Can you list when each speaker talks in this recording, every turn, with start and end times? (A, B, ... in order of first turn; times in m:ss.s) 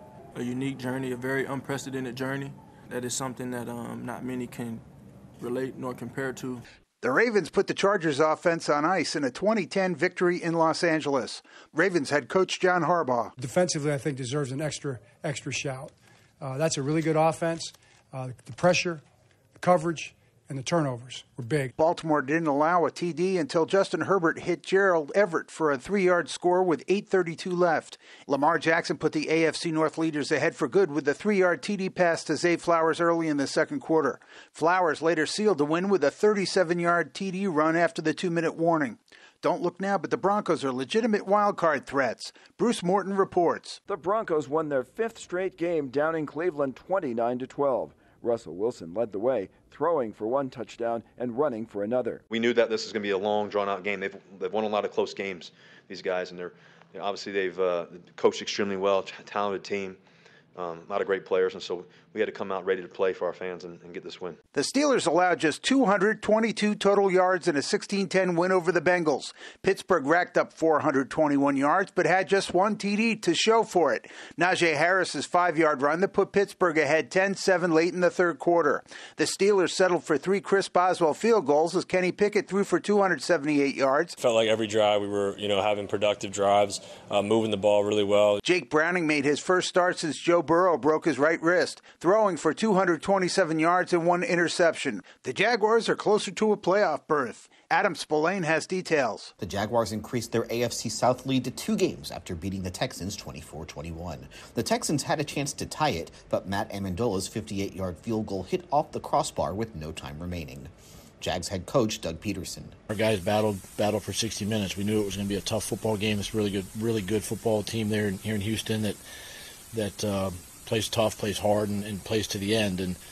0:00.3-0:04.8 A
0:05.4-0:06.6 A
0:07.0-0:13.3 B
0:13.4-0:19.0 C
0:19.6-0:21.7 C
0:21.8-0:43.8 B
0:43.9-0:52.2 D
0:52.3-1:00.0 E
1:00.5-1:04.4 E
1:04.5-1:24.1 B
1:24.2-1:28.4 F
1:28.4-1:39.3 B
1:39.4-1:52.8 G
1:52.9-1:59.0 H
1:59.7-2:03.0 H